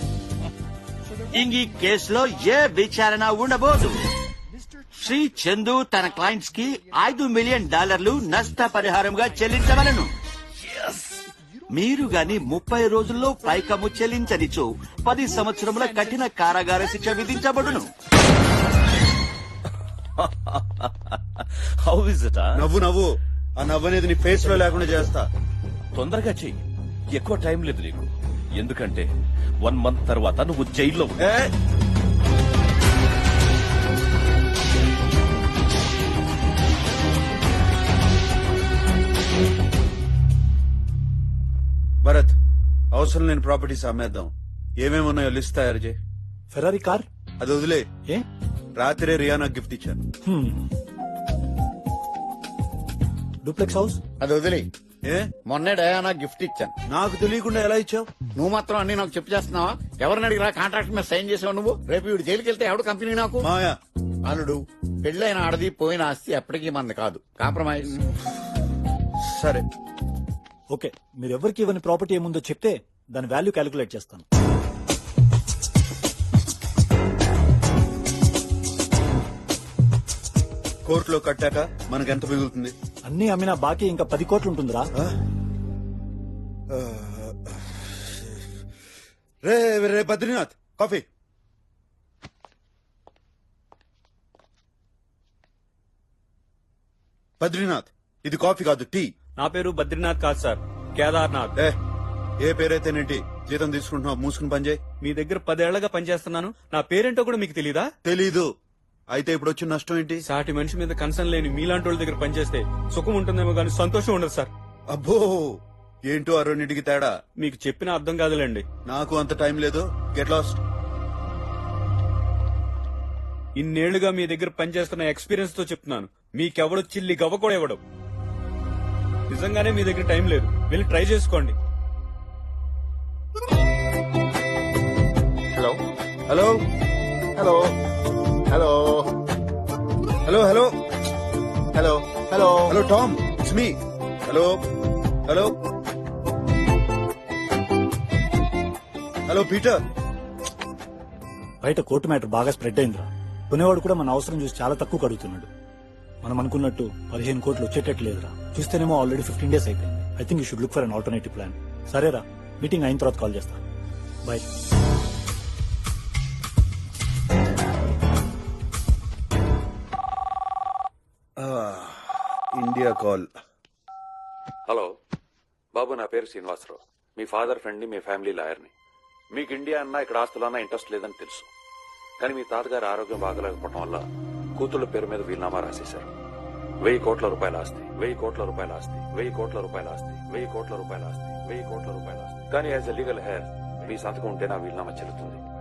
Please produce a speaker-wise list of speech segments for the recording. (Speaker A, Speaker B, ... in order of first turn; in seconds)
Speaker A: 1.3-3.9, 5.0-10.1, 11.7-17.9
Speaker B: 20.2-22.5, 25.9-26.6, 27.1-29.1, 29.6-31.2
Speaker C: 22.6-25.3, 31.2-31.5, 42.0-42.4, 42.9-46.0, 47.4-47.9, 48.8-50.0, 56.9-58.1, 63.4-63.8, 67.9-68.2, 69.2-69.7, 80.9-82.8, 86.7-88.4, 89.4-91.0, 97.4-99.1, 102.4-104.8, 108.0-108.5, 109.1-110.2, 114.9-117.1, 118.9-120.6, 136.3-136.6, 140.3-140.7, 142.6-144.6, 149.3-149.8, 171.4-173.3
Speaker D: 46.5-47.1, 50.3-50.7, 53.4-54.0, 70.7-74.2, 83.1-84.9, 151.6-155.5, 156.2-163.6
Speaker E: 54.2-54.7, 55.5-56.7, 58.4-63.5, 64.2-68.0, 137.4-137.7, 138.5-139.0, 141.8-142.7
Speaker F: 99.4-101.5, 105.0-107.9, 110.2-114.5, 117.4-118.7, 123.6-127.8, 129.3-131.6
Speaker G: 174.7-174.9, 175.7-178.7, 179.3-181.5, 182.2-184.1, 184.6-186.1, 186.8-195.4